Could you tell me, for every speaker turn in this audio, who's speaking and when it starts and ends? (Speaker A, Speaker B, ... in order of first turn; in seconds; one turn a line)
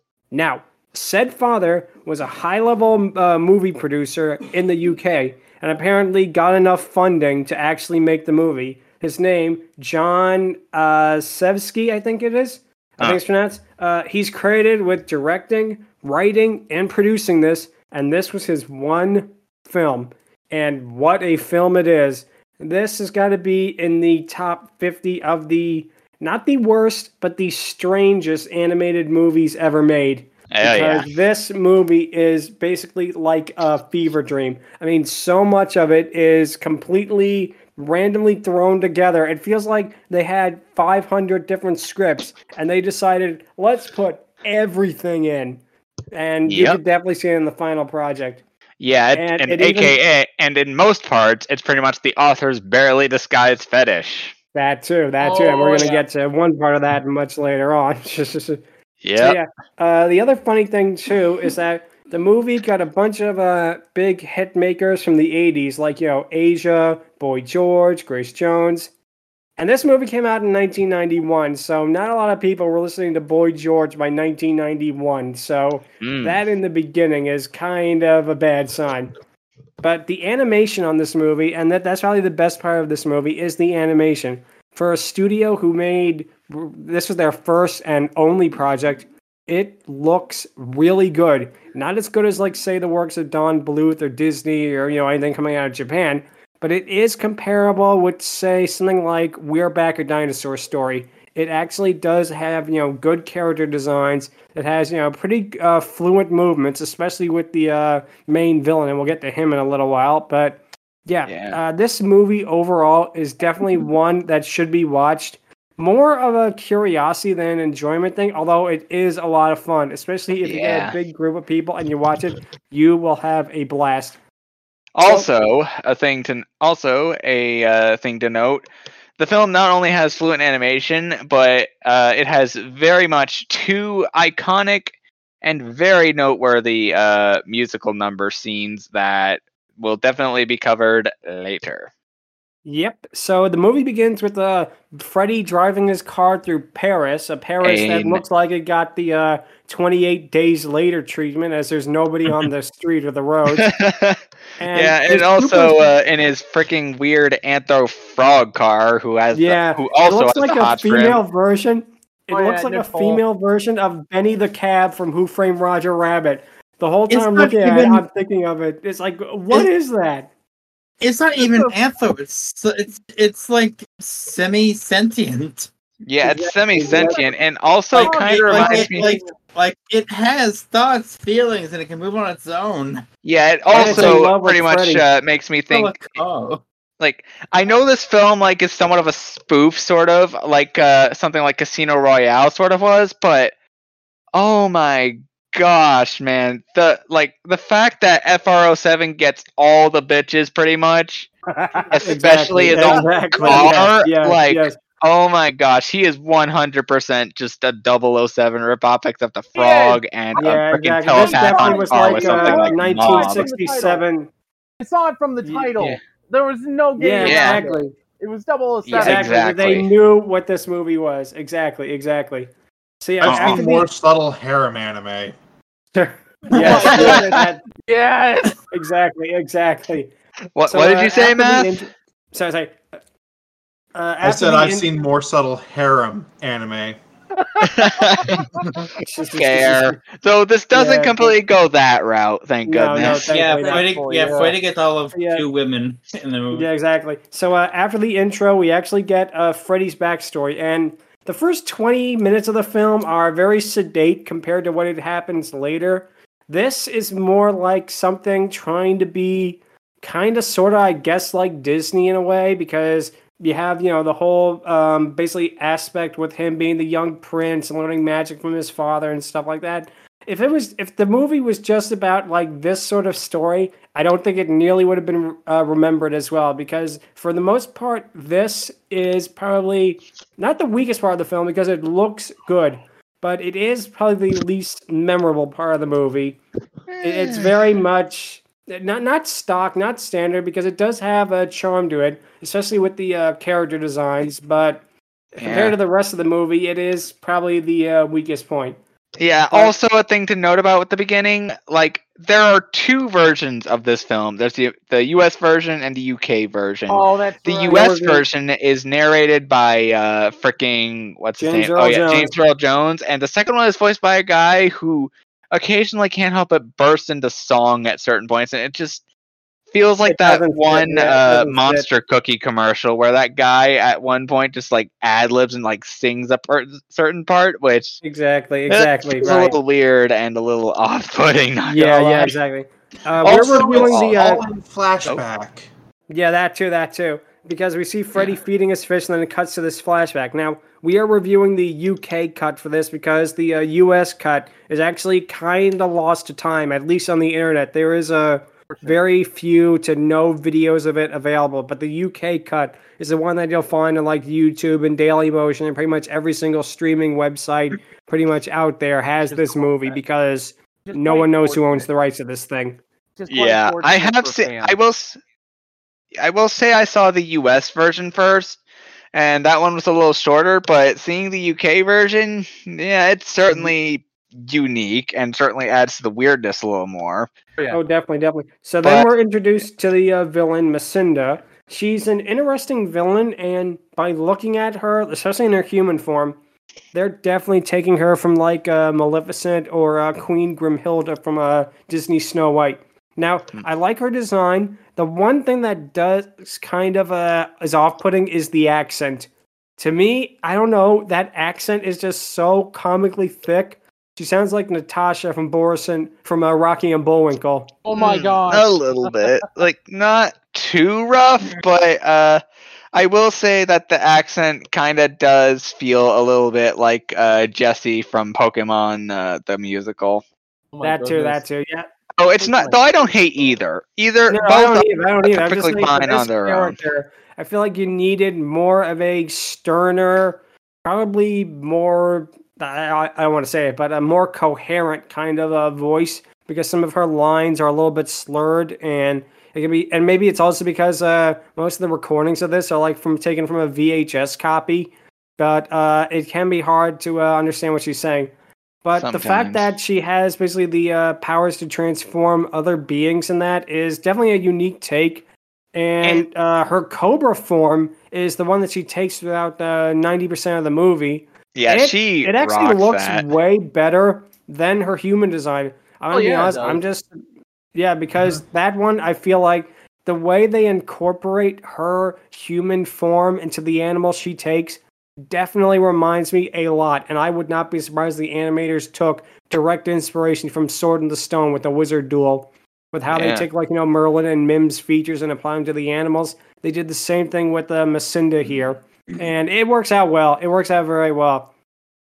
Speaker A: 0.3-48.4
Speaker B: 30.5-31.1
Speaker B: 46.5-46.8
Speaker B: 48.8-54.3
Speaker A: 49.1-50.0
Speaker A: 54.5-58.6
Speaker C: 55.2-56.0
Speaker B: 59.0-59.4
Speaker A: 59.2-68.9
Speaker A: 69.6-79.1
Speaker B: 76.0-76.4
Speaker A: 79.8-124.2
Speaker B: 111.2-111.6
Speaker B: 120.4-120.9
Speaker B: 125.0-141.9
Speaker A: 125.0-125.3
Speaker A: 142.6-153.7
Speaker B: 147.6-148.2
Speaker B: 153.5-154.2
Speaker A: 154.6-155.9
Speaker B: 154.7-161.2
Speaker A: 159.3-170.3
Speaker C: 162.3-163.2
Speaker D: 167.1-168.0
Speaker D: 171.0-175.7
Speaker C: 171.3-171.8
Speaker B: 176.1-179.1
Speaker C: 176.2-177.3
Speaker A: 176.7-177.2
Speaker D: 177.9-183.0
Speaker C: 178.0-179.4
Speaker B: 183.2-186.2
Speaker D: 183.7-184.2
Speaker A: 183.7-185.0
Speaker D: 185.7-186.6
Speaker B: 187.0-193.5
Speaker B: 194.3-201.3
Speaker A: 201.5-204.8
Speaker C: 201.7-202.0
Speaker B: 201.9-213.5
Speaker C: 202.7-203.8
Speaker C: 209.5-210.5
Speaker A: 210.3-214.3
Speaker C: 211.1-214.0
Speaker C: 214.8-219.8
Speaker A: 215.4-215.7
Speaker A: 217.0-217.9
Speaker B: 217.2-217.6
Speaker B: 218.8-219.9
Speaker A: 218.9-222.5
Speaker A: 223.0-223.9
Speaker E: 223.2-225.3
Speaker B: 223.2-223.6
Speaker A: 225.9-227.6
Speaker C: 226.5-228.6
Speaker E: 226.6-227.1
Speaker B: 226.6-227.2
Speaker A: 228.7-230.1
Speaker B: 230.5-231.8
Speaker A: 230.7-232.8
Speaker A: 233.9-234.9
Speaker E: 234.2-236.9
Speaker B: 237.6-238.4
Speaker A: 239.0-240.0
Speaker B: 239.3-243.3
Speaker A: 240.7-241.4
Speaker A: 242.7-243.8
Speaker D: 243.3-246.7
Speaker C: 243.5-244.6
Speaker A: 245.1-245.4
Speaker A: 246.5-286.4
Speaker B: 286.9-287.5
Speaker A: 287.0-294.8
Speaker A: 295.4-298.8
Speaker B: 295.4-295.8
Speaker B: 299.2-319.0
Speaker C: 306.9-307.9
Speaker A: 307.6-308.2
Speaker A: 311.4-312.3
Speaker B: 319.7-328.0
Speaker A: 320.0-321.9
Speaker A: 328.0-329.6
Speaker B: 328.7-332.3
Speaker A: 331.7-334.4
Speaker E: 333.2-335.7
Speaker B: 333.2-334.2
Speaker A: 336.1-362.8
Speaker C: 348.7-349.0
Speaker C: 359.3-360.0
Speaker C: 360.9-361.9
Speaker C: 363.1-364.8
Speaker B: 363.3-365.2
Speaker B: 366.2-368.6
Speaker B: 369.1-377.3
Speaker A: 377.7-386.4
Speaker B: 378.8-379.1
Speaker A: 386.9-407.7
Speaker C: 407.8-409.5
Speaker B: 407.9-412.4
Speaker B: 412.9-420.2
Speaker C: 420.7-421.4
Speaker A: 420.8-421.9
Speaker B: 422.2-426.8
Speaker C: 422.4-423.6
Speaker A: 424.3-448.3
Speaker A: 448.8-455.2
Speaker B: 449.0-449.7
Speaker A: 455.7-467.2
Speaker B: 461.5-463.3
Speaker C: 466.1-466.8
Speaker A: 467.7-491.5
Speaker B: 483.1-483.5